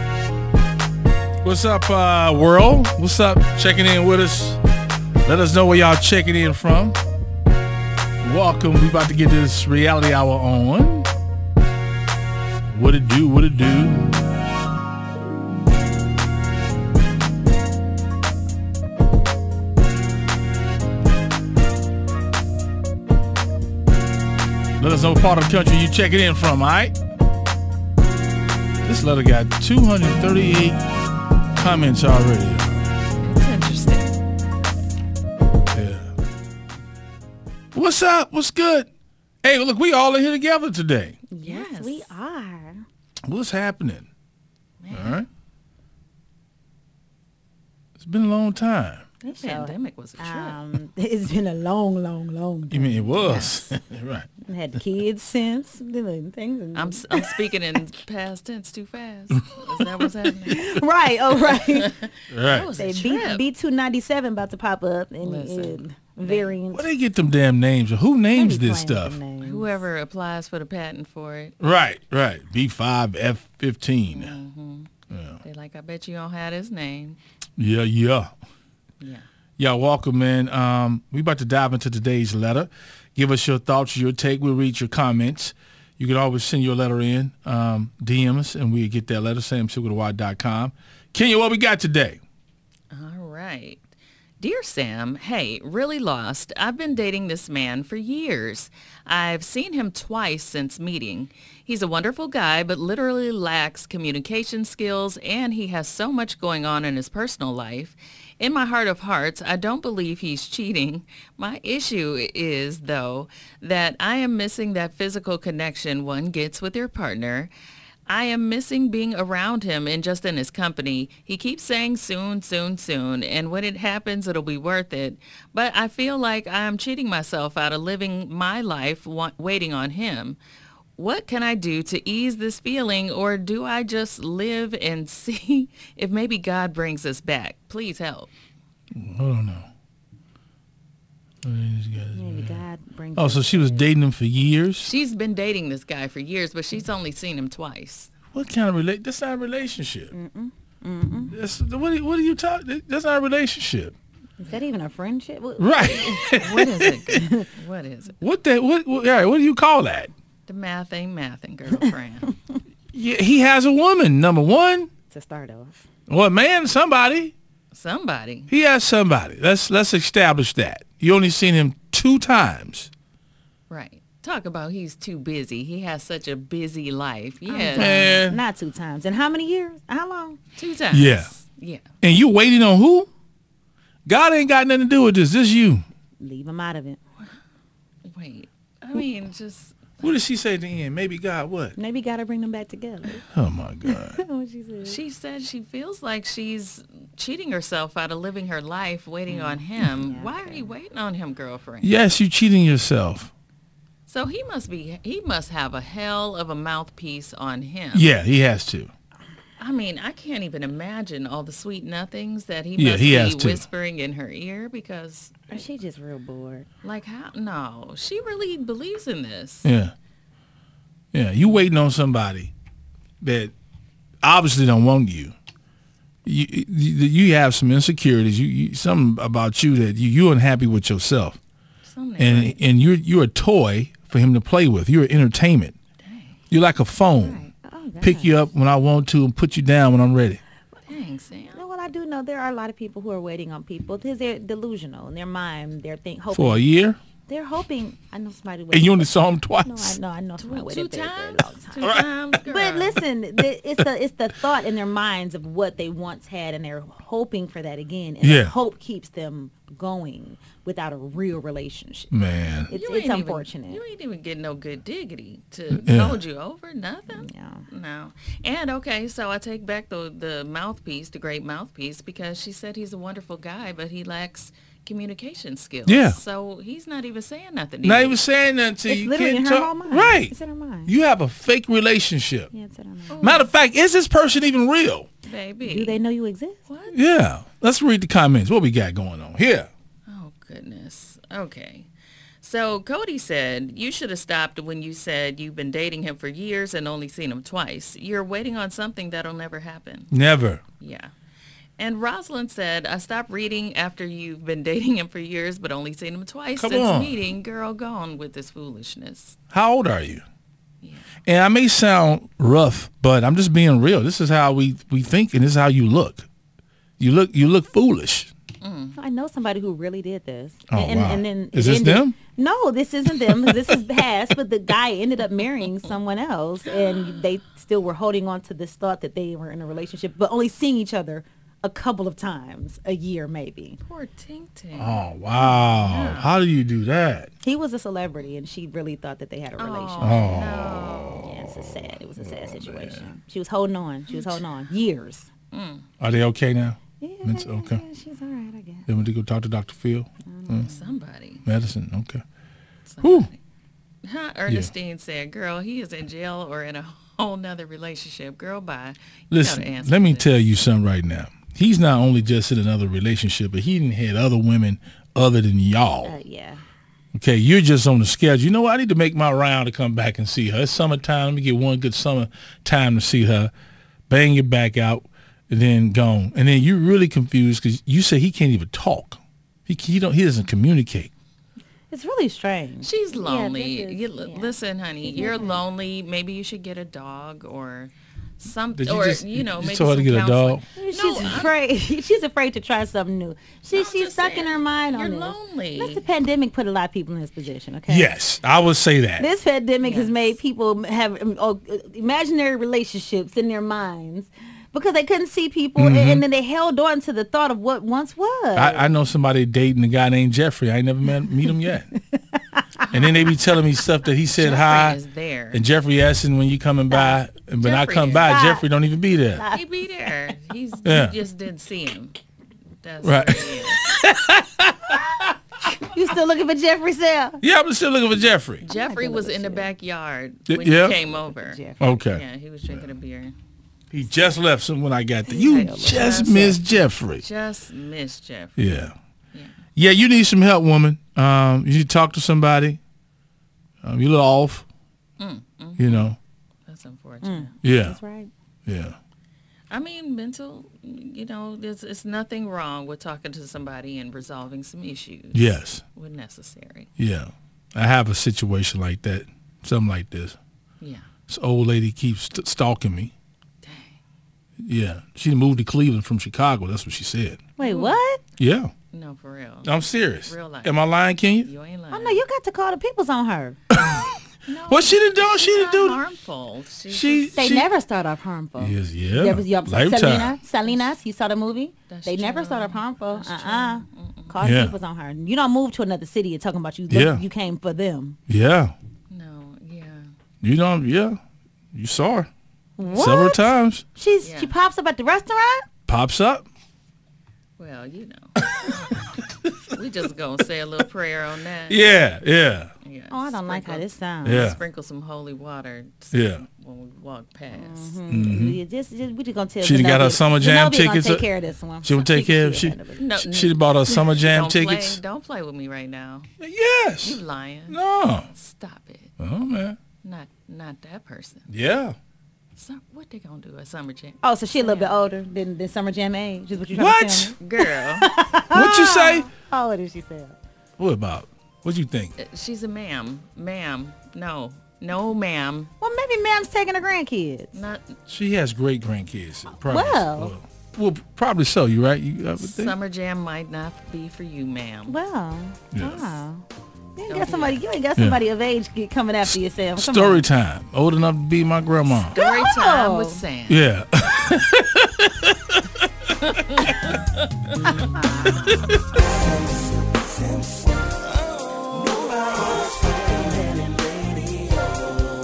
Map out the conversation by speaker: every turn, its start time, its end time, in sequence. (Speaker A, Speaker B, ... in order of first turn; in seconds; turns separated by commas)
Speaker A: 1.4-4.6, Speaker A: 5.2-7.0, Speaker A: 8.2-11.1, Speaker A: 12.7-14.2, Speaker A: 24.8-26.9, Speaker A: 28.8-30.8, Speaker A: 31.5-32.9, Speaker B: 33.2-34.2, Speaker A: 35.7-36.1, Speaker A: 37.7-38.9, Speaker A: 39.4-41.2, Speaker C: 41.3-42.8, Speaker B: 41.4-42.1, Speaker A: 43.2-44.1, Speaker B: 44.8-45.2, Speaker A: 44.9-45.3, Speaker A: 48.0-49.0, Speaker B: 49.2-50.7, Speaker C: 49.3-53.7, Speaker A: 52.7-54.3, Speaker B: 53.2-53.6, Speaker C: 54.4-57.4, Speaker B: 56.7-60.7, Speaker A: 59.3-59.6, Speaker C: 60.4-62.0, Speaker B: 61.3-63.4, Speaker A: 62.3-62.7, Speaker C: 62.8-66.9, Speaker B: 65.2-66.6, Speaker A: 66.7-69.2, Speaker C: 68.3-69.8, Speaker B: 69.4-71.6, Speaker A: 71.6-74.3, Speaker B: 74.1-77.2, Speaker A: 75.1-75.4, Speaker A: 77.6-78.3, Speaker B: 79.0-79.2, Speaker A: 79.6-92.2, Speaker B: 92.9-117.5, Speaker B: 118.1-130.4, Speaker B: 131.0-138.3, Speaker A: 138.9-139.7, Speaker A: 141.4-142.6, Speaker C: 142.1-143.9, Speaker A: 143.2-144.9, Speaker B: 144.8-148.1, Speaker A: 148.3-150.1, Speaker C: 150.1-151.3, Speaker A: 151.3-153.9, Speaker C: 154.4-156.4, Speaker A: 155.6-157.2, Speaker B: 155.8-158.2, Speaker C: 157.1-157.5, Speaker A: 158.2-160.1, Speaker B: 160.5-162.3, Speaker A: 162.9-164.9, Speaker C: 165.1-165.8, Speaker A: 166.1-167.3, Speaker B: 167.7-168.5, Speaker A: 168.5-172.9, Speaker B: 173.7-178.2, Speaker C: 177.4-180.4, Speaker A: 177.8-178.4, Speaker B: 180.6-181.8, Speaker A: 180.9-181.3, Speaker A: 182.0-183.1, Speaker A: 184.1-185.8, Speaker C: 186.2-187.0, Speaker B: 188.0-190.2, Speaker A: 190.0-191.7, Speaker C: 191.7-193.2, Speaker A: 193.3-194.2, Speaker C: 193.8-195.0, Speaker B: 194.8-202.0, Speaker C: 199.3-200.7, Speaker A: 201.8-203.3, Speaker B: 204.1-208.1, Speaker A: 207.9-208.9, Speaker B: 209.6-215.6, Speaker A: 212.8-213.7, Speaker C: 215.5-216.7, Speaker B: 216.8-219.7, Speaker A: 219.6-219.9, Speaker A: 221.1-222.5, Speaker B: 221.4-221.7, Speaker A: 223.2-223.5, Speaker A: 224.2-225.3, Speaker A: 226.2-231.4, Speaker B: 231.8-232.6, Speaker A: 232.2-235.7, Speaker B: 236.0-236.4, Speaker A: 236.5-237.5, Speaker C: 237.2-238.4, Speaker A: 238.0-240.4, Speaker B: 240.9-241.6, Speaker C: 241.5-246.7, Speaker A: 246.3-247.0, Speaker C: 247.3-251.9, Speaker A: 248.7-250.0, Speaker B: 250.4-253.0, Speaker A: 251.8-252.1, Speaker C: 252.4-263.8, Speaker A: 258.2-258.5, Speaker A: 262.1-262.7, Speaker B: 262.7-278.2, Speaker A: 265.7-266.2, Speaker C: 267.1-267.6, Speaker A: 275.9-276.2, Speaker A: 277.8-280.3, Speaker C: 278.9-280.9, Speaker A: 280.9-282.5, Speaker C: 282.5-283.2, Speaker B: 283.1-283.5, Speaker A: 283.2-285.1, Speaker B: 285.2-286.0, Speaker C: 285.6-286.6, Speaker B: 286.7-287.0, Speaker A: 286.9-289.7, Speaker B: 290.1-291.9, Speaker B: 292.4-300.1, Speaker A: 300.1-300.6, Speaker B: 300.8-301.1, Speaker B: 301.8-309.4, Speaker A: 306.6-307.2, Speaker A: 309.5-310.2, Speaker B: 310.8-311.1, Speaker A: 311.2-316.3, Speaker A: 317.0-318.3, Speaker B: 318.6-319.0, Speaker C: 318.9-333.8, Speaker A: 320.7-322.1, Speaker A: 323.2-323.6, Speaker B: 333.8-336.4, Speaker A: 334.8-337.3, Speaker C: 337.4-340.4, Speaker B: 339.6-341.3, Speaker A: 340.0-341.6, Speaker C: 341.1-345.3, Speaker A: 342.2-343.1, Speaker B: 344.1-344.4, Speaker B: 345.5-345.9, Speaker A: 346.0-347.8, Speaker C: 347.0-348.9, Speaker A: 348.9-350.7, Speaker C: 350.2-350.9, Speaker B: 350.6-351.4, Speaker A: 351.4-352.2, Speaker B: 352.9-353.4, Speaker A: 353.0-353.3, Speaker B: 354.0-360.3, Speaker A: 359.3-366.2, Speaker C: 366.0-366.6, Speaker A: 367.1-373.5, Speaker A: 374.1-381.1, Speaker C: 381.9-385.6, Speaker B: 382.8-391.6, Speaker A: 388.7-390.6, Speaker C: 390.7-398.1, Speaker B: 393.7-396.0, Speaker A: 397.9-399.3, Speaker C: 399.2-408.9, Speaker B: 399.8-400.3, Speaker A: 405.8-406.2, Speaker A: 408.5-411.9, Speaker C: 411.2-413.1, Speaker A: 412.9-415.0, Speaker B: 414.3-415.6, Speaker A: 415.5-419.4, Speaker C: 416.9-417.2, Speaker B: 417.6-418.3, Speaker C: 418.1-418.7, Speaker C: 419.3-419.7, Speaker B: 419.5-422.2, Speaker A: 420.8-421.1, Speaker B: 422.8-423.8, Speaker A: 423.0-425.3, Speaker C: 425.8-427.4, Speaker A: 427.4-428.6, Speaker B: 428.6-433.3, Speaker C: 428.7-429.7, Speaker A: 430.5-431.0, Speaker C: 431.1-432.0, Speaker A: 431.8-432.2, Speaker A: 433.9-437.2, Speaker C: 435.2-436.6, Speaker B: 435.4-436.6, Speaker B: 437.2-438.7, Speaker A: 438.6-438.9, Speaker A: 439.8-442.8, Speaker A: 443.8-444.6, Speaker B: 445.2-446.1, Speaker A: 445.8-446.2, Speaker B: 446.7-447.5, Speaker C: 447.2-448.3, Speaker A: 447.6-448.0, Speaker A: 448.6-449.0, Speaker B: 449.7-456.9, Speaker A: 455.3-455.8, Speaker A: 457.0-460.4, Speaker B: 460.8-461.1, Speaker A: 461.3-463.1, Speaker B: 463.6-463.9, Speaker A: 464.6-467.4, Speaker C: 467.6-468.2, Speaker B: 467.6-468.0, Speaker A: 468.4-468.7, Speaker B: 468.9-470.8, Speaker A: 469.6-471.5, Speaker B: 471.4-472.2, Speaker C: 471.9-473.6, Speaker A: 473.7-474.0, Speaker B: 474.4-477.5, Speaker A: 474.7-476.0, Speaker A: 476.9-477.7, Speaker C: 477.3-488.2, Speaker A: 478.6-480.4, Speaker B: 480.6-480.9, Speaker B: 481.9-484.5, Speaker A: 484.4-484.8, Speaker A: 486.9-487.2, Speaker A: 488.3-488.7, Speaker B: 489.1-490.1, Speaker A: 490.4-491.2, Speaker A: 491.7-492.3, Speaker C: 492.8-495.6, Speaker B: 492.8-493.1, Speaker A: 492.9-493.8, Speaker B: 494.2-494.5, Speaker A: 495.9-496.4, Speaker B: 497.6-499.1, Speaker B: 499.7-502.0, Speaker A: 501.7-502.7, Speaker B: 502.8-508.0, Speaker C: 503.1-504.6, Speaker A: 504.2-504.6, Speaker A: 506.1-506.4, Speaker C: 507.5-513.1, Speaker A: 508.1-508.6, Speaker A: 509.6-511.3, Speaker A: 511.8-515.0, Speaker B: 513.0-516.3, Speaker A: 516.4-518.3, Speaker B: 517.0-517.8, Speaker B: 518.3-519.1, Speaker A: 519.2-519.8, Speaker B: 520.0-521.5, Speaker A: 521.5-521.9, Speaker B: 522.5-525.0, Speaker C: 524.2-530.4, Speaker A: 526.7-527.3, Speaker B: 527.4-528.0, Speaker A: 528.5-529.3, Speaker A: 530.8-532.1, Speaker B: 532.2-535.7, Speaker C: 535.8-537.5, Speaker B: 537.5-538.0, Speaker A: 538.1-542.7, Speaker C: 539.5-540.4, Speaker B: 542.4-545.0, Speaker C: 544.9-550.3, Speaker A: 545.7-546.2, Speaker B: 547.1-547.6, Speaker A: 549.8-552.2, Speaker B: 551.8-553.6, Speaker C: 552.1-553.2, Speaker A: 553.5-555.9, Speaker B: 556.2-557.9, Speaker C: 557.6-558.4, Speaker A: 558.4-558.8, Speaker B: 561.7-564.6